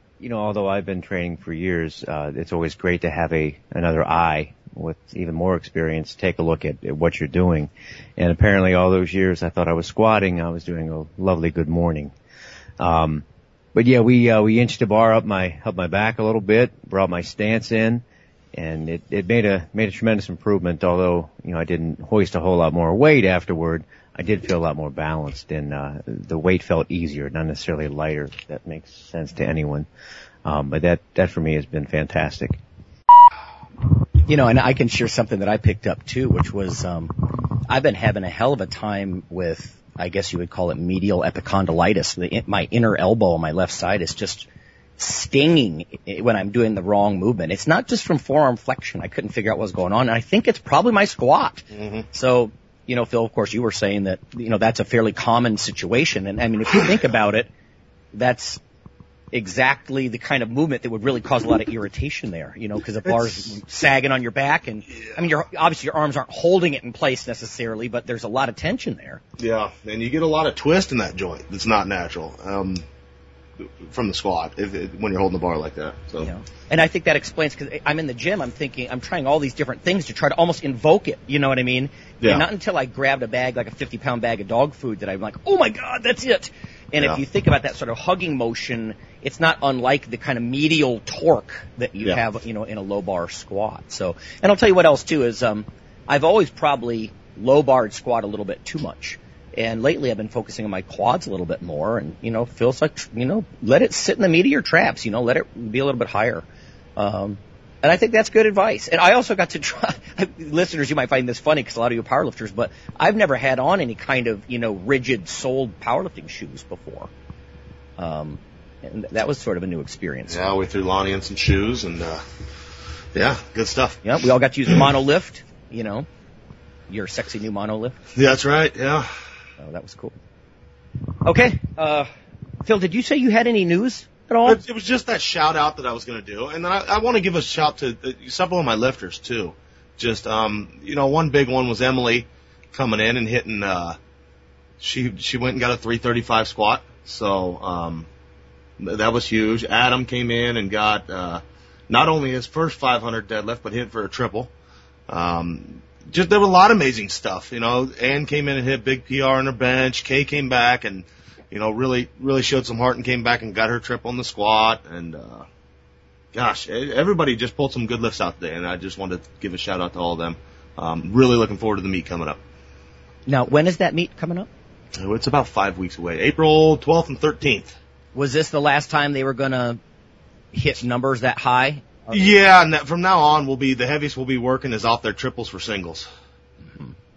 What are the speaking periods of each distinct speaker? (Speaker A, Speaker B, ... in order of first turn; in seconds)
Speaker A: 0.2-12.1, 12.8-29.9, 30.4-32.6
Speaker B: 34.2-44.5, 45.0-57.5, 58.1-58.6, 59.3-69.2, 76.2-106.4, 107.0-117.1, 118.0-120.5, 124.0-126.1, 126.9-128.0, 129.6-130.1, 131.2-132.1, 132.6-134.6, 173.3-174.5, 178.1-179.8, 180.5-182.3
Speaker C: 51.7-52.0, 63.1-63.5, 69.4-72.8, 73.8-76.3, 82.2-82.5, 120.3-122.2, 123.1-124.0, 128.2-129.1, 134.4-144.0, 144.8-148.1, 148.8-154.5, 155.1-165.4, 166.3-172.4, 174.9-177.8, 182.1-186.1